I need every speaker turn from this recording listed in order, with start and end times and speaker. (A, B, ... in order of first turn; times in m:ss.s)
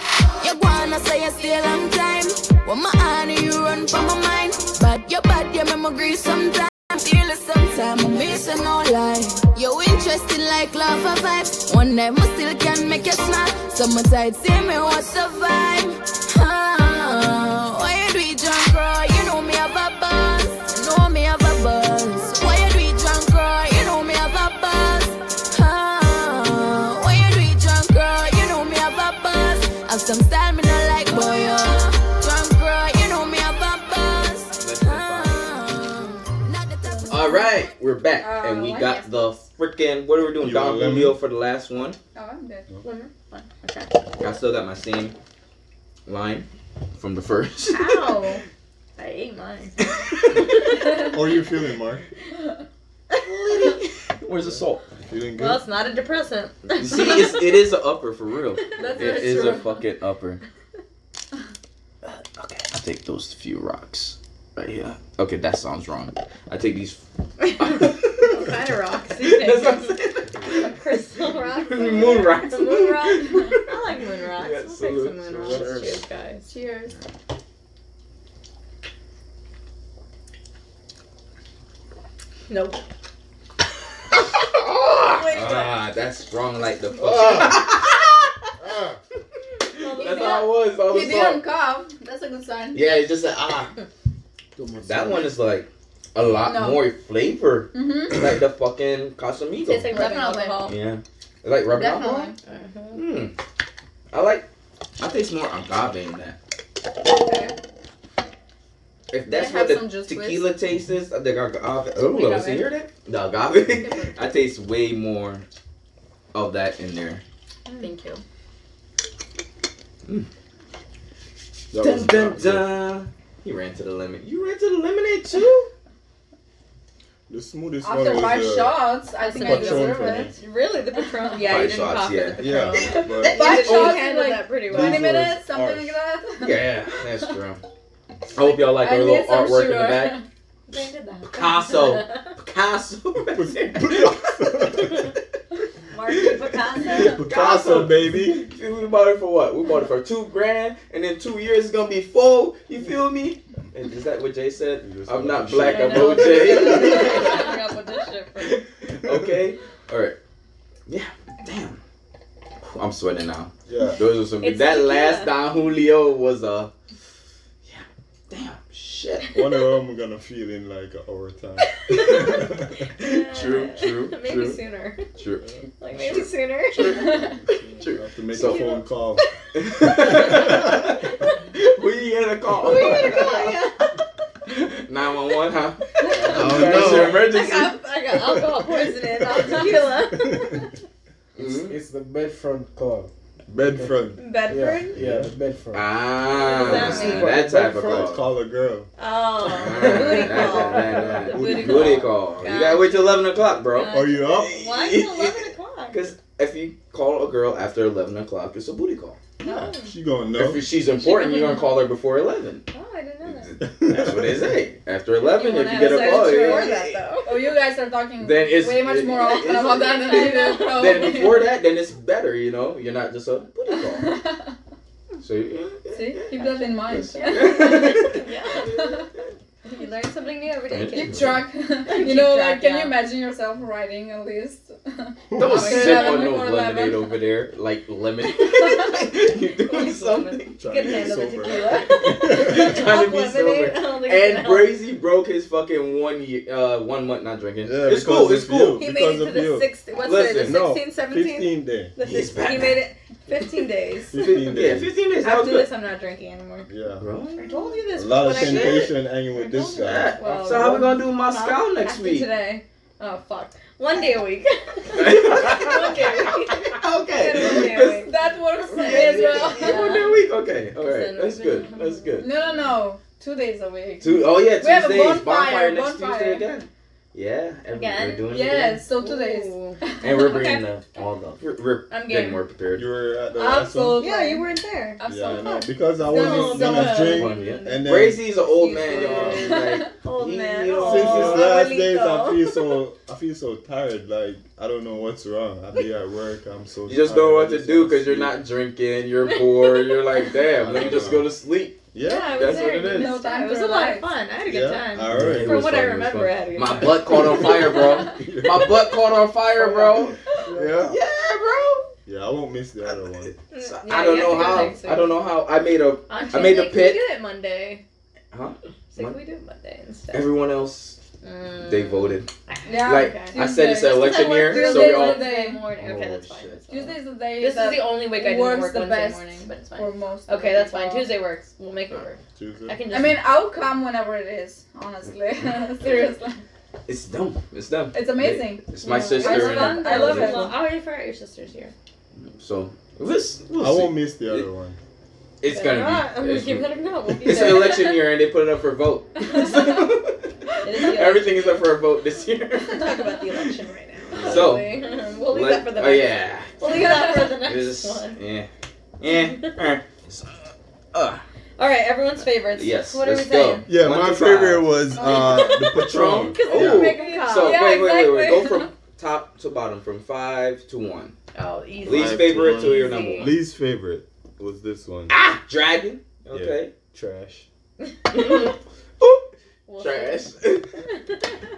0:00.4-0:37.5 A
0:34.6-0:35.6 B
0:36.9-0:37.4 C
0:37.1-0:42.0 B
0:38.2-0:39.4 C
0:40.4-0:41.2 D
0:42.1-0:42.7 C
0:42.8-0:44.2 E
0:44.2-0:45.2 B
0:46.1-0:48.1 B
0:47.7-0:48.4 E
0:49.0-0:51.2 E
0:49.9-0:50.5 B
0:50.9-0:52.0 D
0:53.1-0:53.8 E
0:53.2-0:54.9 B
0:55.0-0:55.6 D
0:55.4-0:57.4 E
0:56.7-1:00.4 B
0:58.8-0:59.8 C
0:58.8-0:59.7 E
1:02.0-1:07.0 B
1:07.4-1:16.5 E
1:07.6-1:08.6 B
1:09.2-1:11.0 B
1:11.6-1:13.8 B
1:14.4-1:16.0 B
1:16.5-1:17.0 C
1:22.5-1:22.8 E
1:24.1-1:28.5 B
1:25.1-1:25.8 E
1:28.6-1:29.0 D
1:29.6-1:31.4 B
1:29.8-1:30.5 E
1:30.0-1:33.0 C
1:32.7-1:33.7 B
1:34.6-1:35.3 F
1:34.8-1:39.9 B
1:36.4-1:36.8 C
1:37.7-1:38.2 C
1:39.6-1:40.8 E
1:39.9-1:40.6 C
1:40.7-1:42.3 B
1:41.7-1:42.4 C
1:42.5-1:43.0 E
1:42.9-1:43.4 B
1:44.1-1:44.5 B
1:45.0-1:46.4 B
1:47.0-1:47.5 C
1:49.1-1:55.4 B
1:49.3-1:50.5 C
1:52.1-1:52.7 E
1:53.4-1:54.4 C
1:56.3-1:57.2 B
1:57.7-1:58.2 C
2:01.7-2:02.7 D
2:01.8-2:05.7 B
2:07.3-2:10.3 D
2:07.8-2:10.4 C
2:09.2-2:15.3 E
2:11.5-2:14.0 B
2:12.4-2:13.8 D
2:13.2-2:17.2 C
2:14.7-2:16.0 D
2:16.4-2:17.6 B
2:18.3-2:20.2 B
2:18.4-2:20.2 C
2:20.7-2:22.3 E
2:21.3-2:25.2 B
2:23.3-2:25.1 D
2:25.9-2:27.2 E
2:26.1-2:37.6 B
2:26.8-2:28.5 D
2:34.8-2:37.2 D
2:35.6-2:38.6 E
2:38.4-2:40.2 B
2:39.0-2:39.4 D
2:40.9-2:41.8 B
2:42.6-2:46.7 B
2:43.7-2:44.0 D
2:44.4-2:45.4 E
2:47.6-2:49.3 B
2:49.3-2:52.8 D
2:51.7-2:55.1 E
2:51.9-2:52.3 B
2:53.0-2:54.6 B
2:55.2-2:56.3 B
2:55.8-2:57.3 E
2:57.2-2:59.2 D
2:57.8-2:58.8 B
2:58.4-2:59.3 E
2:59.5-3:03.5 B
2:59.9-3:00.8 E
3:02.6-3:03.9 E
3:04.5-3:07.8 B
3:06.0-3:10.6 E
3:06.1-3:07.3 D
3:09.6-3:10.7 D
3:11.4-3:11.8 B
3:11.4-3:13.1 F
3:13.5-3:14.2 D
3:14.2-3:15.0 E
3:14.5-3:18.2 F
3:14.8-3:15.3 D
3:15.7-3:18.2 B
3:16.3-3:17.3 E
3:16.7-3:18.9 D
3:19.0-3:26.1 E
3:19.5-3:29.2 B
3:19.6-3:21.2 F
3:20.8-3:22.1 D
3:23.9-3:24.6 D
3:29.4-3:29.9 E
3:29.4-3:30.7 D
3:30.4-3:32.6 B
3:31.0-3:31.8 E
3:32.7-3:33.6 E
3:33.3-3:37.0 B
3:33.6-3:34.4 D
3:35.2-3:37.5 E
3:35.7-3:41.5 C
3:38.2-3:44.2 B
3:39.2-3:41.3 E
3:43.7-3:44.5 C
3:45.2-3:49.2 B
3:45.9-3:49.0 C
3:47.1-3:49.0 E
3:49.6-3:53.0 E
3:50.7-3:51.3 B
3:50.9-3:56.3 C
3:55.3-3:55.8 D
3:55.4-4:08.8 B
3:55.4-3:57.2 E
3:58.3-4:04.8 E
4:00.6-4:02.7 D
4:07.6-4:09.7 D
4:08.8-4:14.3 E
4:10.0-4:10.6 B
4:10.3-4:11.9 D
4:12.0-4:12.8 B
4:14.1-4:14.9 D
4:14.2-4:15.7 B
4:15.2-4:16.7 E
4:16.7-4:17.1 D
4:17.0-4:17.5 B
4:17.4-4:30.2 E
4:18.0-4:20.2 D
4:18.2-4:18.9 B
4:19.6-4:22.3 B
4:20.3-4:20.9 C
4:24.9-4:28.0 B
4:27.8-4:30.1 C
4:28.8-4:32.3 B
4:30.8-4:32.3 E
4:32.2-4:36.5 C
4:34.0-4:38.8 B
4:37.7-4:38.3 E
4:38.3-4:40.0 C
4:38.9-4:40.7 E
4:40.0-4:42.9 B
4:41.9-4:42.4 E
4:42.7-4:44.0 D
4:43.3-4:45.0 E
4:43.9-4:44.5 C
4:45.0-4:46.9 C
4:45.0-4:48.3 D
4:46.1-4:47.8 E
4:46.7-4:51.5 B
4:48.5-4:52.6 E
4:49.1-4:49.8 C
4:50.8-4:58.4 D
4:56.9-5:01.8 B
4:59.3-4:59.9 E
5:00.6-5:01.3 D
5:01.9-5:02.5 D
5:02.0-5:08.2 E
5:02.3-5:03.2 B
5:02.7-5:04.1 C
5:04.5-5:05.9 D
5:05.1-5:10.2 B
5:07.1-5:08.8 D
5:09.6-5:11.0 D
5:10.8-5:11.9 B
5:12.1-5:13.3 D
5:13.5-5:15.2 E
5:13.6-5:17.0 B
5:16.1-5:17.8 E
5:18.3-5:19.2 B
5:18.9-5:20.3 E
5:20.1-5:21.0 B
5:21.2-5:33.2 E
5:21.6-5:22.3 B
5:22.7-5:25.6 C
5:22.8-5:26.6 B
5:26.7-5:31.1 C
5:32.4-5:32.8 D
5:32.9-5:36.4 C
5:36.9-5:40.5 B
5:37.9-5:40.6 C
5:38.8-5:41.7 E
5:42.3-5:44.5 B
5:43.6-5:44.8 D
5:45.4-5:53.4 B
5:45.5-5:48.1 E
5:49.3-5:49.8 E
5:50.6-5:51.6 E
5:52.6-5:58.2 E
5:54.2-5:54.8 B
5:55.3-5:58.5 B
5:56.7-5:57.1 C
5:59.0-6:00.4 B
5:59.1-5:59.6 E
6:00.9-6:01.2 B
6:01.6-6:03.7 E
6:02.6-6:04.7 B
6:03.7-6:07.0 D
6:05.0-6:08.7 E
6:05.6-6:11.1 B
6:06.8-6:07.7 C
6:11.3-6:13.3 E
6:11.8-6:13.3 B
6:11.9-6:15.2 D
6:15.1-6:16.7 B
6:16.3-6:17.5 D
6:18.1-6:19.3 B
6:19.7-6:20.3 E
6:19.8-6:20.7 B